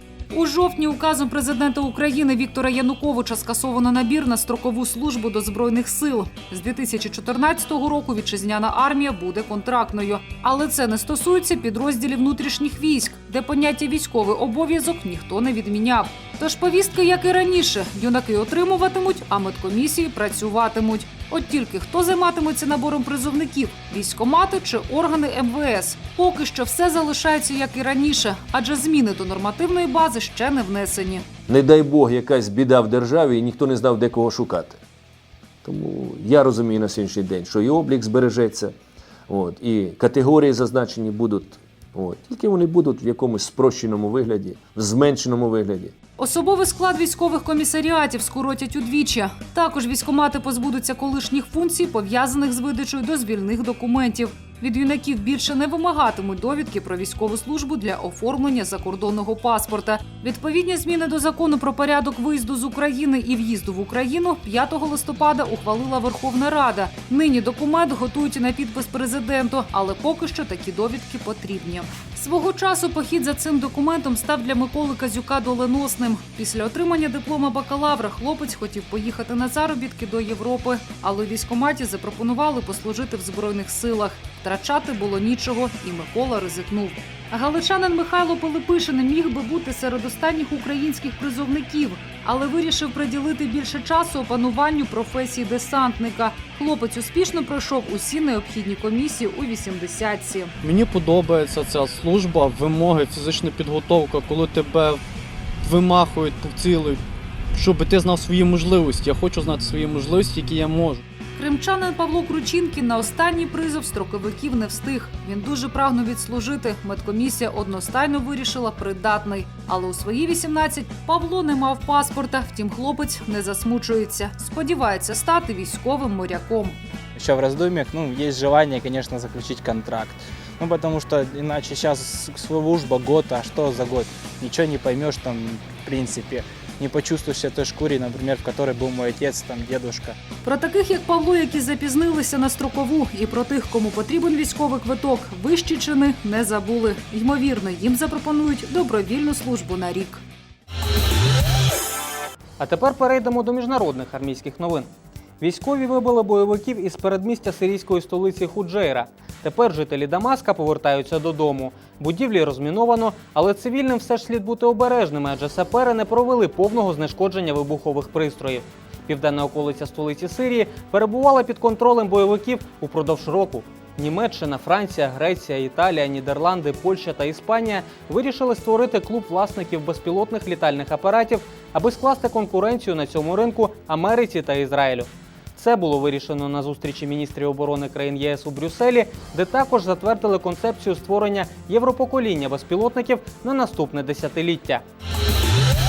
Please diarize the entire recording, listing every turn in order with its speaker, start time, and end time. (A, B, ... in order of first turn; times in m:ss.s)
0:00.3-0:31.2 A
0:31.5-0:34.8 B
0:35.6-0:38.7 B
0:39.3-0:45.9 B
0:46.2-1:40.5 A
1:40.6-1:45.0 C
1:45.6-1:47.0 C
1:47.5-1:51.0 C
1:51.4-2:06.8 A
2:07.2-2:20.2 D
2:20.4-2:30.2 A
2:32.6-2:34.9 E
2:35.4-3:14.8 E